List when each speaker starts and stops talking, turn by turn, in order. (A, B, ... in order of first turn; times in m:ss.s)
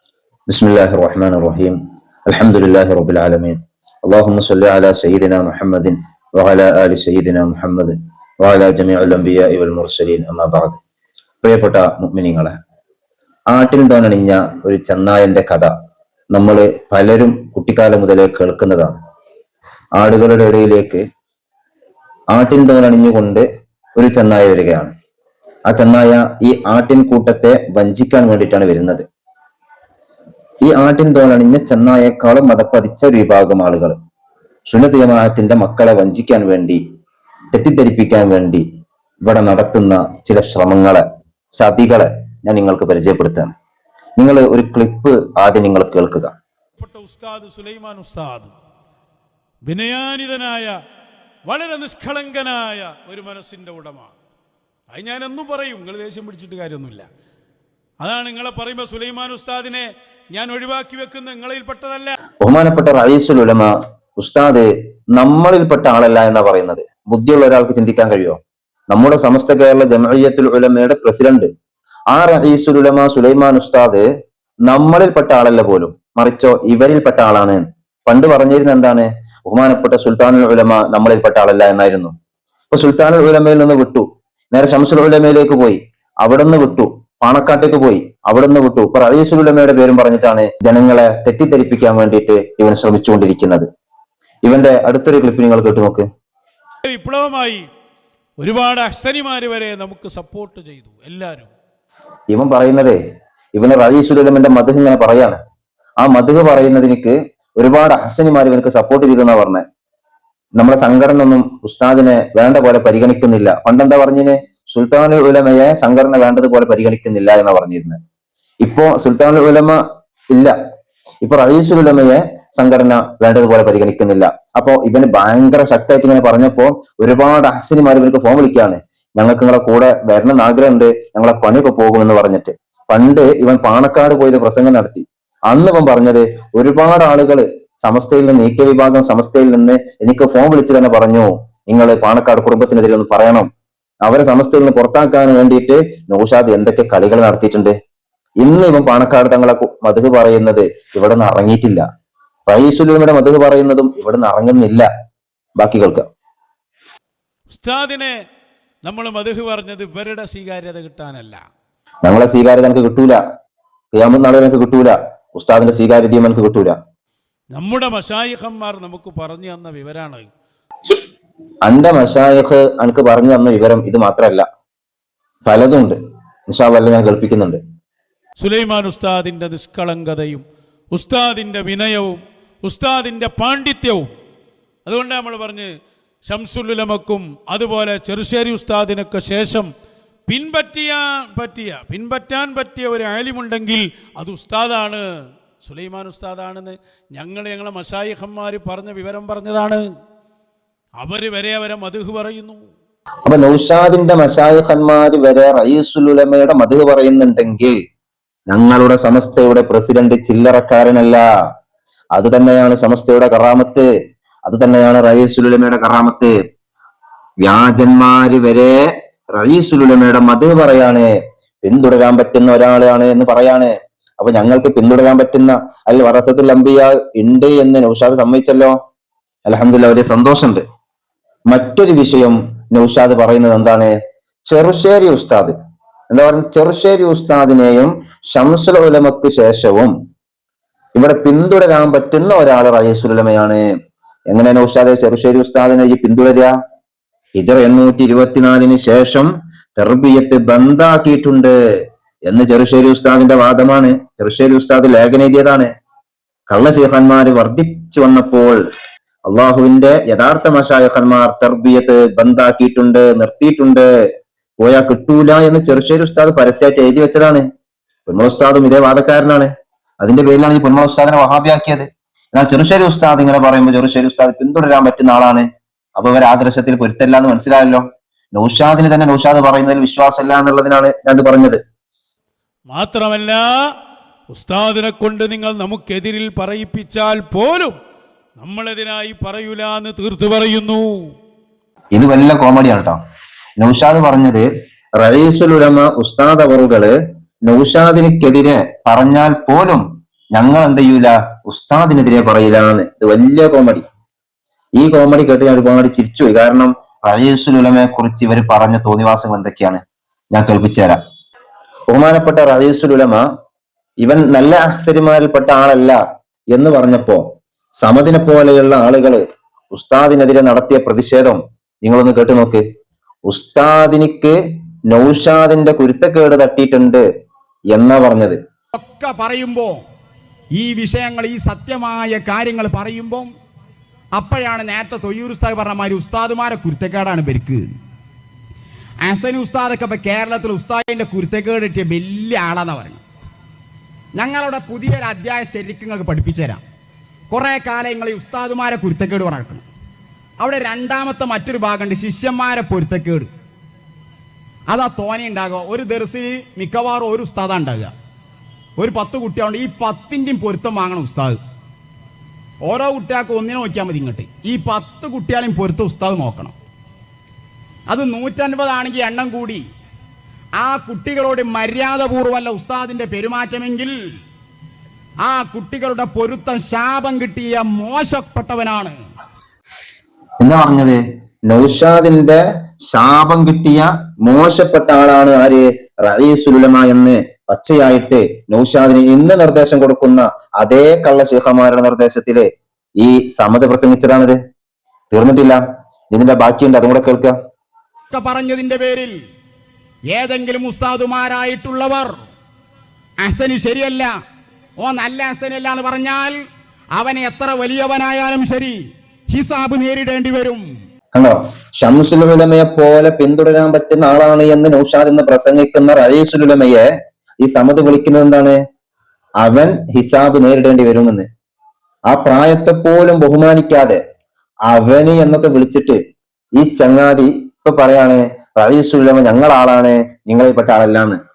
0:00.5-0:01.8 A
0:02.3-0:10.8 A
0:11.4-0:12.5 A
0:13.5-0:15.7 A
0:16.3-0:19.0 A
0:20.0-0:21.0 A
0:22.3-0:23.4 A
0:24.0-0:24.9 A
0:25.7-0:29.0 A
0:30.6-0:34.0 A
0:34.7-0:36.8 A
0:37.5-0:38.6 A
0:39.2-0:41.0 A
0:41.6-0:43.5 A
0:44.2-0:46.3 A
0:46.8-0:48.5 B
0:49.7-0:50.7 B
0:51.5-0:54.1 B
0:54.9-0:57.1 B
0:58.0-1:02.1 B
1:02.4-1:08.4 A
1:08.9-1:11.5 A
1:12.1-1:14.0 A
1:14.7-1:22.1 A
1:22.7-1:33.7 A
1:34.4-1:36.1 A
1:36.9-1:37.7 B
1:38.4-1:41.5 B
1:42.3-1:43.0 A
1:43.6-1:45.4 A
1:46.0-1:49.6 A
1:50.6-1:58.0 A
1:58.6-1:59.8 A
2:01.2-2:23.5 A
2:24.0-2:27.8 A
2:28.4-2:31.8 A
2:32.5-2:34.9 A
2:35.6-2:36.1 A
2:37.5-2:38.1 B
2:38.8-2:41.4 B
2:42.0-2:43.2 A
2:43.9-2:46.8 A
2:47.6-2:50.2 B
2:51.6-2:54.4 A
2:55.5-2:56.0 A
2:56.5-2:57.6 A
2:58.4-3:04.1 B
3:04.9-3:05.7 B
3:06.3-3:09.7 B
3:10.3-3:15.0 B
3:15.6-3:19.8 B
3:21.0-3:22.6 B
3:23.2-3:27.8 A
3:28.5-3:31.2 A
3:32.2-3:33.9 A
3:34.5-3:36.3 A
3:37.4-3:38.8 A
3:39.3-3:41.1 A
3:41.6-3:48.8 A
3:49.5-3:50.6 A
3:51.5-3:53.9 A
3:54.5-3:55.6 A
3:56.1-3:59.9 A
4:00.9-4:03.6 A
4:04.3-4:06.5 A
4:07.4-4:11.6 A
4:12.3-4:15.7 A
4:16.5-4:18.6 A
4:19.3-4:23.9 A
4:24.6-4:27.4 A
4:28.1-4:29.5 A
4:30.0-4:35.4 A
4:36.0-4:41.6 A
4:42.7-4:43.4 B
4:44.3-4:47.7 B
4:48.4-4:50.9 B
4:51.9-4:53.0 A
4:53.6-4:59.8 A
5:00.3-5:03.8 A
5:04.8-5:09.8 A
5:10.3-5:11.0 A
5:11.9-5:13.2 A
5:14.0-5:16.0 A
5:16.5-5:17.2 A
5:17.8-5:19.2 A
5:19.7-5:22.6 A
5:23.2-5:24.3 A
5:24.9-5:27.0 A
5:27.7-5:28.4 A
5:28.7-5:29.8 C
5:30.5-5:33.3 C
5:34.1-5:37.7 C
5:39.0-5:43.0 C
5:44.2-5:46.6 C
5:47.3-5:49.7 C
5:50.4-5:53.3 C
5:54.7-5:57.9 C
5:58.8-6:01.4 C
6:02.6-6:06.5 C
6:07.9-6:09.6 C
6:10.6-6:13.9 C
6:15.2-6:19.0 C
6:20.4-6:32.5 A
6:33.0-6:34.4 A
6:35.1-6:35.6 A
6:36.1-6:37.3 A
6:38.1-6:39.1 C
6:40.1-6:42.3 C
6:43.2-6:44.1 C
6:44.8-6:46.3 C
6:46.9-6:50.7 C
6:51.1-6:56.8 A
6:57.4-6:58.6 A
6:59.4-7:01.3 A
7:02.1-7:04.0 A
7:04.7-7:06.0 A
7:06.6-7:11.2 A